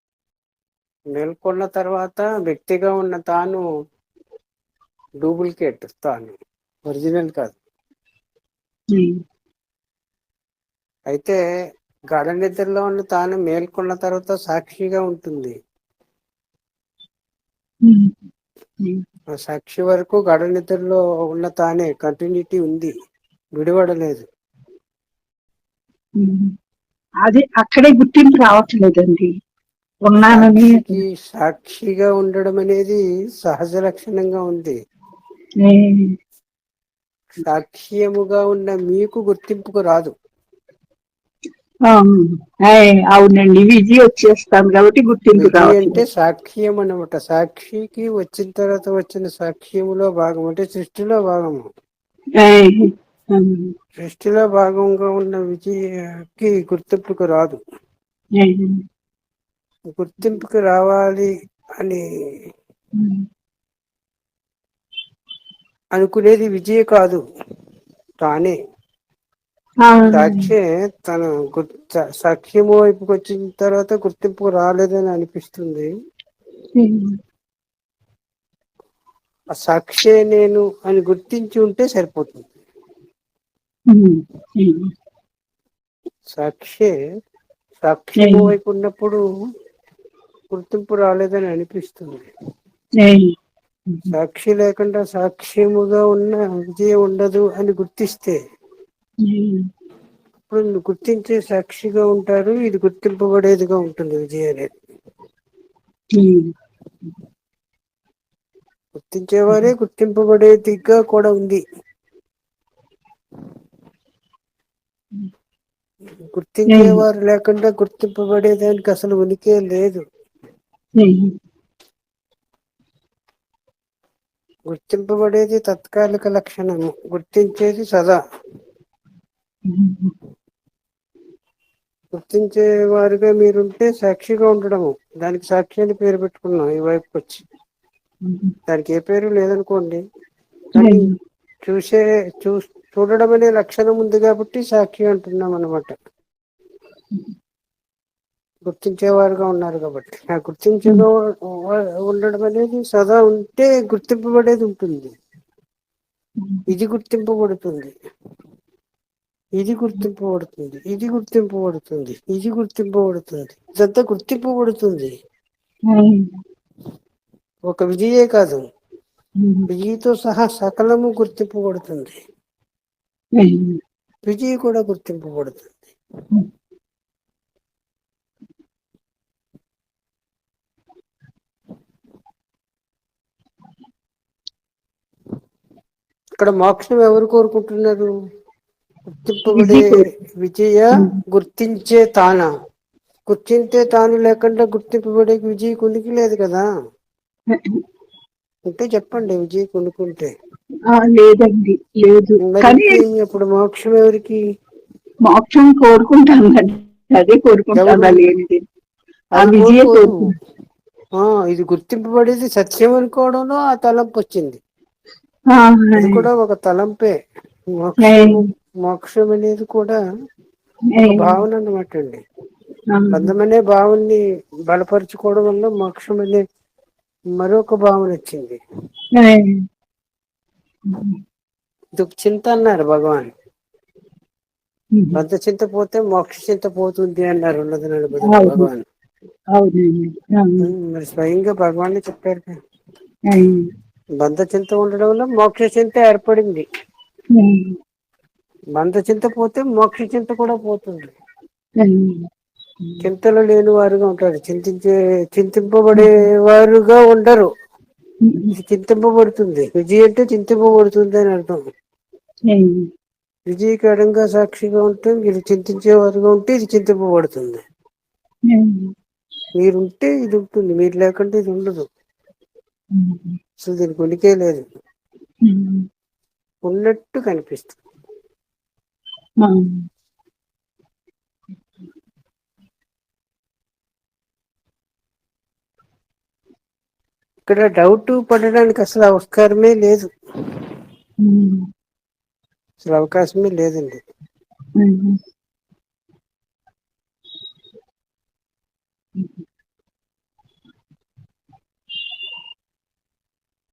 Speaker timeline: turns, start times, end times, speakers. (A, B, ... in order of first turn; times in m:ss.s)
0:01.1-0:03.6 A
0:05.2-0:07.6 A
0:11.1-0:11.4 A
0:12.1-0:15.6 A
0:17.9-0:18.2 B
0:19.4-0:22.9 A
0:23.6-0:24.3 A
0:26.2-0:26.5 B
0:27.2-0:29.3 B
0:30.1-0:31.0 B
0:30.3-0:34.8 A
0:35.6-0:36.1 B
0:37.4-0:40.1 A
0:41.9-0:46.0 B
0:45.4-0:51.7 A
0:52.4-0:53.7 B
0:54.0-0:55.7 A
0:56.4-0:57.6 A
0:58.4-0:58.8 B
0:59.9-1:02.0 A
1:03.0-1:03.2 B
1:06.0-1:07.2 A
1:08.2-1:08.6 A
1:09.8-1:10.5 B
1:10.1-1:15.9 A
1:16.8-1:17.1 B
1:19.6-1:22.5 A
1:23.9-1:24.9 B
1:26.4-1:26.9 A
1:27.8-1:29.2 A
1:28.2-1:28.5 B
1:30.5-1:32.3 A
1:33.0-1:33.3 B
1:34.1-1:38.4 A
1:39.3-1:39.6 B
1:40.5-1:44.7 A
1:46.2-1:46.5 B
1:49.0-1:51.6 A
1:56.3-2:00.0 A
1:56.7-1:57.0 B
2:01.0-2:01.3 B
2:04.7-2:08.2 A
2:09.7-2:10.1 B
2:12.1-2:17.4 A
2:18.2-2:18.5 B
2:18.7-2:20.0 A
2:20.8-2:21.1 A
2:20.8-2:21.2 B
2:21.7-2:26.0 A
2:28.7-2:35.1 A
2:36.4-2:36.7 B
2:36.7-2:38.0 A
2:39.6-2:45.2 A
2:45.9-2:46.2 B
2:47.7-2:48.6 A
2:49.4-2:49.7 B
2:49.7-2:52.2 A
2:53.4-2:53.8 B
2:54.3-2:55.9 A
3:06.4-3:08.1 A
3:09.1-3:12.5 A
3:09.6-3:10.1 B
3:13.3-3:16.7 A
3:17.5-3:17.8 B
3:18.7-3:20.3 A
3:20.9-3:23.0 B
3:22.4-3:24.4 A
3:25.3-3:28.6 B
3:27.8-3:28.2 A
3:29.4-3:30.1 A
3:29.4-3:30.3 B
3:31.2-3:34.6 A
3:35.5-3:36.2 B
3:36.0-3:37.1 A
3:37.8-3:40.0 A
3:38.0-3:38.4 B
3:41.0-3:41.4 B
3:41.1-3:42.2 A
3:42.9-3:43.3 B
3:43.1-3:46.4 A
3:47.4-3:48.6 A
3:49.2-3:49.6 B
3:50.9-3:51.2 B
3:52.0-3:53.3 A
3:55.2-3:58.8 A
3:58.2-3:58.7 B
3:59.6-4:00.7 B
4:00.6-4:02.6 A
4:03.3-4:03.6 B
4:04.2-4:06.7 A
4:07.4-4:07.8 B
4:08.8-4:11.2 A
4:11.8-4:12.2 B
4:13.0-4:17.5 A
4:18.3-4:18.5 B
4:18.5-4:21.6 A
4:22.5-4:22.9 B
4:23.5-4:27.6 A
4:28.5-4:28.9 B
4:29.6-4:31.9 A
4:33.0-4:33.4 B
4:33.6-4:34.6 A
4:35.4-4:35.8 B
4:36.7-4:37.8 A
4:39.4-4:39.8 B
4:47.5-4:50.1 A
4:51.2-4:51.7 B
4:52.8-4:54.0 A
4:54.8-4:55.2 B